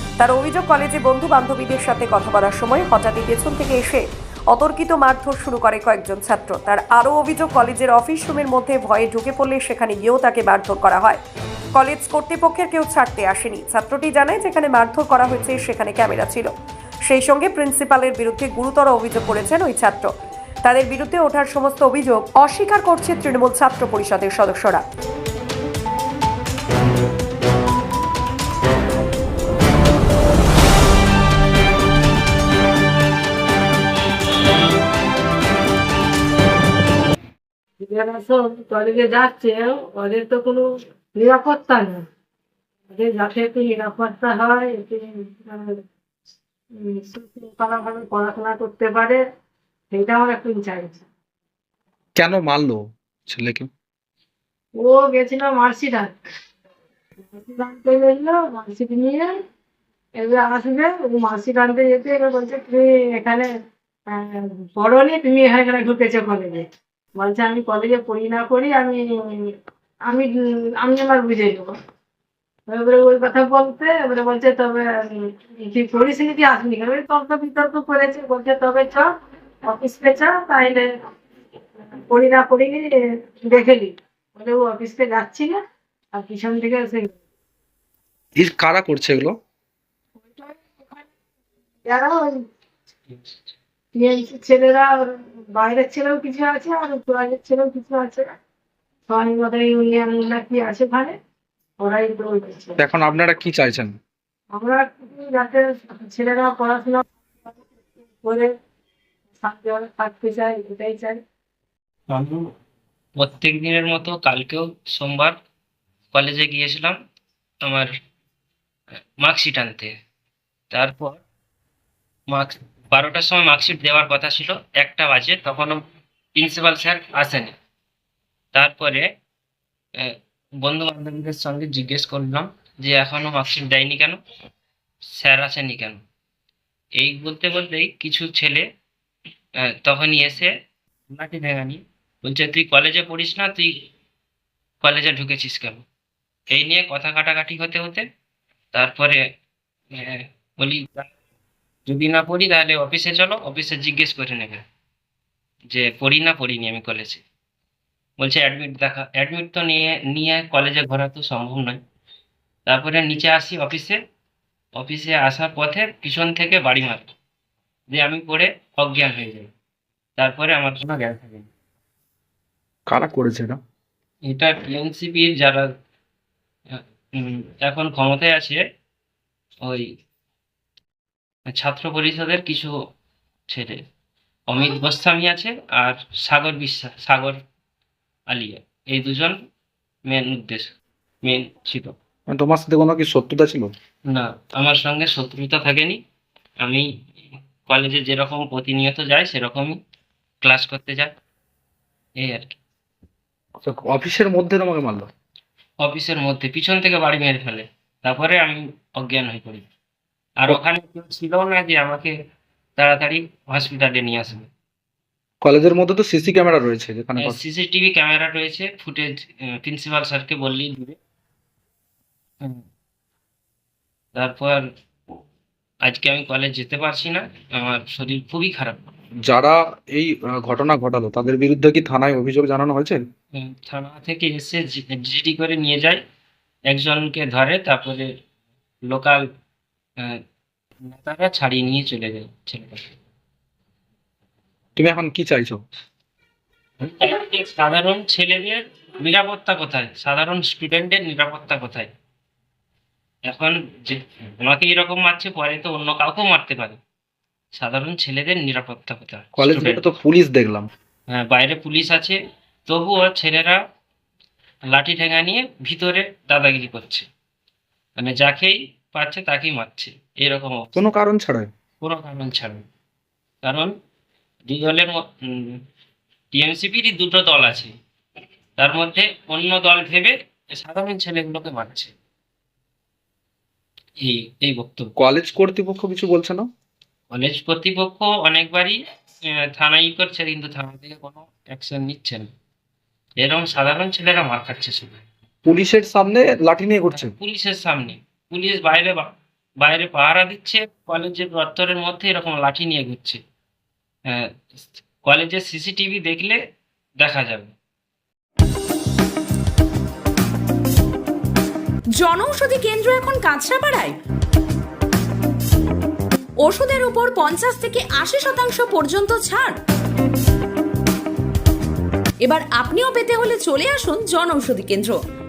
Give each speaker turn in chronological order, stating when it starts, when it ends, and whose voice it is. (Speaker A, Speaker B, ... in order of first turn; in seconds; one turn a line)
Speaker A: 0.2-11.2
Speaker A: 11.8-16.5
Speaker A: 17.1-20.1
Speaker A: 20.6-24.8
Speaker B: 37.8-40.6
Speaker B: 41.2-42.0
Speaker B: 42.9-45.8
Speaker B: 46.8-49.2
Speaker B: 49.9-51.0
Speaker C: 52.2-53.7
Speaker B: 54.8-56.1
Speaker B: 57.3-59.3
Speaker B: 60.2-63.5
Speaker B: 64.1-69.5
Speaker B: 70.1-71.7
Speaker B: 72.7-79.1
Speaker B: 79.7-80.9
Speaker B: 82.1-85.6
Speaker B: 86.1-87.1
Speaker C: 88.4-89.3
Speaker B: 90.2-91.1
Speaker B: 91.9-92.4
Speaker B: 94.0-98.3
Speaker B: 99.1-101.2
Speaker B: 101.8-102.8
Speaker C: 102.8-104.0
Speaker B: 104.5-107.6
Speaker B: 108.2-108.5
Speaker B: 109.4-111.2
Speaker D: 112.1-112.5
Speaker D: 113.2-115.3
Speaker D: 116.1-117.0
Speaker D: 117.6-117.9
Speaker D: 119.2-119.9
Speaker D: 120.7-121.2
Speaker D: 122.3-125.8
Speaker D: 126.4-127.5
Speaker D: 128.5-129.1
Speaker D: 130.6-134.2
Speaker D: 135.2-136.0
Speaker D: 137.0-138.6
Speaker D: 139.7-140.5
Speaker D: 141.1-143.7
Speaker D: 144.8-145.8
Speaker D: 146.5-148.1
Speaker D: 148.7-149.2
Speaker D: 149.9-151.1
Speaker D: 151.9-154.6
Speaker D: 155.7-157.2
Speaker D: 158.2-161.8
Speaker D: 162.7-164.0
Speaker D: 164.8-167.1
Speaker D: 167.9-169.5
Speaker D: 170.2-171.5
Speaker C: 172.9-173.6
Speaker D: 174.3-175.7
Speaker D: 176.7-178.6
Speaker D: 181.5-182.7
Speaker D: 183.5-183.8
Speaker D: 184.5-187.4
Speaker D: 188.3-189.3
Speaker D: 190.1-190.7
Speaker D: 191.2-191.9
Speaker C: 192.3-193.7
Speaker D: 194.1-196.0
Speaker D: 196.6-196.9
Speaker D: 197.7-199.8
Speaker D: 200.4-201.1
Speaker D: 202.2-202.5
Speaker C: 203.6-205.1
Speaker D: 205.8-209.7
Speaker D: 210.4-212.1
Speaker D: 212.8-214.5
Speaker C: 215.4-217.4
Speaker D: 217.2-221.0
Speaker D: 224.2-224.6
Speaker D: 225.8-228.9
Speaker C: 229.2-233.0
Speaker D: 233.3-236.0
Speaker D: 236.7-238.1
Speaker D: 238.9-239.2
Speaker D: 240.8-242.9
Speaker C: 244.8-245.6
Speaker D: 246.8-251.9
Speaker D: 253.3-256.8
Speaker D: 257.5-259.8
Speaker C: 259.4-260.7
Speaker D: 261.1-263.6
Speaker D: 264.7-267.1
Speaker D: 268.0-270.9
Speaker C: 270.8-271.5
Speaker D: 271.8-272.6
Speaker D: 273.4-273.7
Speaker D: 274.5-275.6
Speaker D: 276.3-277.7
Speaker D: 278.6-281.9
Speaker D: 284.0-284.9
Speaker C: 285.0-286.5
Speaker D: 287.1-288.8
Speaker D: 289.3-292.3
Speaker D: 293.2-295.0
Speaker C: 295.5-297.1
Speaker D: 296.9-303.2
Speaker D: 304.1-306.4
Speaker D: 307.0-307.5
Speaker E: 312.0-313.9
Speaker E: 316.4-319.6
Speaker E: 322.2-325.0